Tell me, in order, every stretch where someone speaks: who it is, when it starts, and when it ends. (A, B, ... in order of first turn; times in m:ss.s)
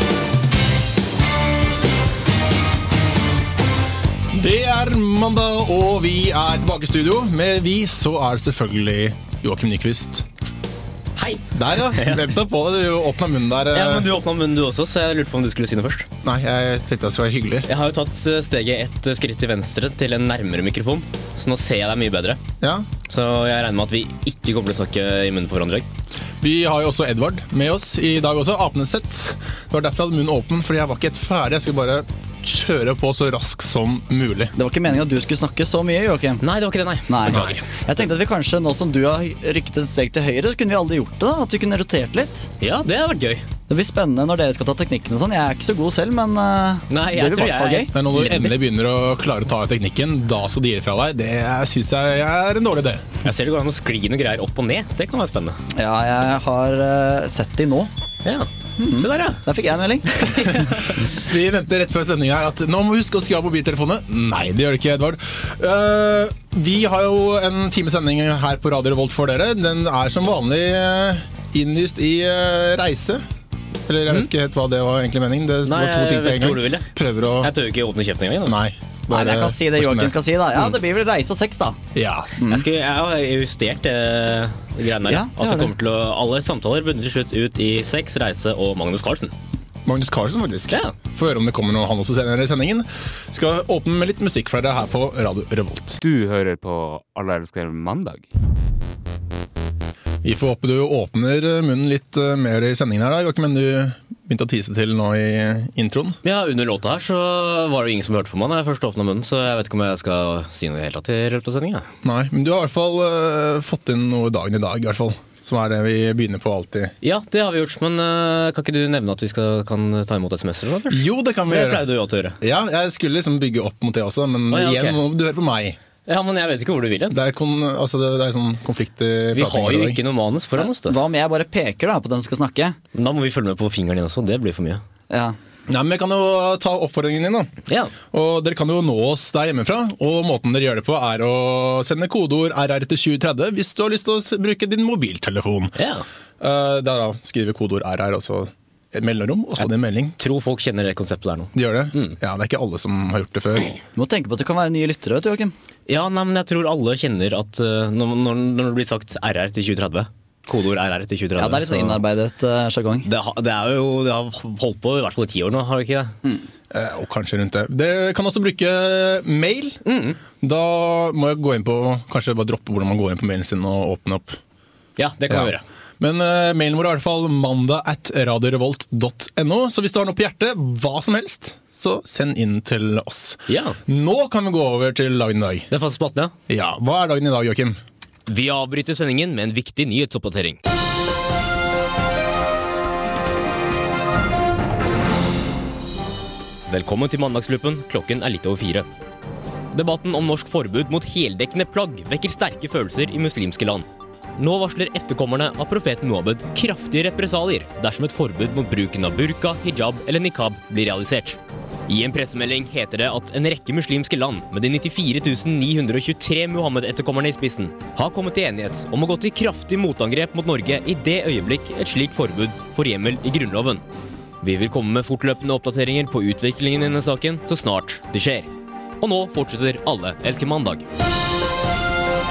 0:04.3-0:10.3 A
0:11.2-0:12.3 B
0:11.5-0:14.1 A
0:13.7-0:16.1 B
0:16.2-0:17.7 A
0:17.6-0:22.4 B
0:22.6-0:22.9 A
0:23.1-0:25.9 B
0:26.4-0:34.5 A
0:34.6-0:36.4 C
0:36.4-0:37.6 B
0:37.1-0:42.5 C
0:37.3-0:37.6 A
0:42.6-0:43.5 B
0:43.7-0:48.0 C
0:46.9-0:48.4 B
0:47.9-0:53.1 A
0:53.2-0:55.6 B
0:55.7-0:57.9 C
0:58.2-0:59.4 B
0:58.8-1:00.6 C
1:00.2-1:00.8 B
1:00.6-1:13.2 A
1:13.9-1:17.5 A
1:15.6-1:16.9 B
1:17.4-1:18.6 B
1:18.4-1:20.1 A
1:19.1-1:21.8 C
1:22.0-1:22.3 A
1:22.4-1:29.3 B
1:25.1-1:25.7 C
1:29.8-1:36.0 A
1:30.7-1:31.0 B
1:36.0-1:38.3 D
1:40.2-1:46.2 A
1:46.2-1:51.9 B
1:52.0-1:56.9 A
1:57.0-2:02.4 B
2:00.9-2:01.9 A
2:02.4-2:05.8 A
2:04.5-2:05.0 B
2:06.1-2:07.2 B
2:07.1-2:10.0 A
2:09.3-2:11.0 B
2:10.6-2:12.8 C
2:13.0-2:14.8 B
2:15.1-2:15.4 C
2:15.7-2:17.5 A
2:17.7-2:17.9 B
2:18.1-2:25.8 A
2:25.8-2:26.1 B
2:26.4-2:30.2 A
2:29.6-2:32.2 B
2:31.5-2:33.8 A
2:34.0-2:35.5 C
2:35.9-2:42.0 B
2:41.4-2:43.1 C
2:43.0-2:46.2 B
2:46.7-2:49.8 A
2:49.8-2:50.2 B
2:50.4-2:54.4 A
2:55.0-2:55.6 B
2:55.3-3:05.7 A
3:03.5-3:03.8 B
3:05.7-3:06.3 B
3:06.5-3:07.8 A
3:08.3-3:10.6 B
3:16.7-3:18.9 B
3:19.7-3:43.8 B
3:44.4-3:48.5 B
3:49.0-3:50.9 B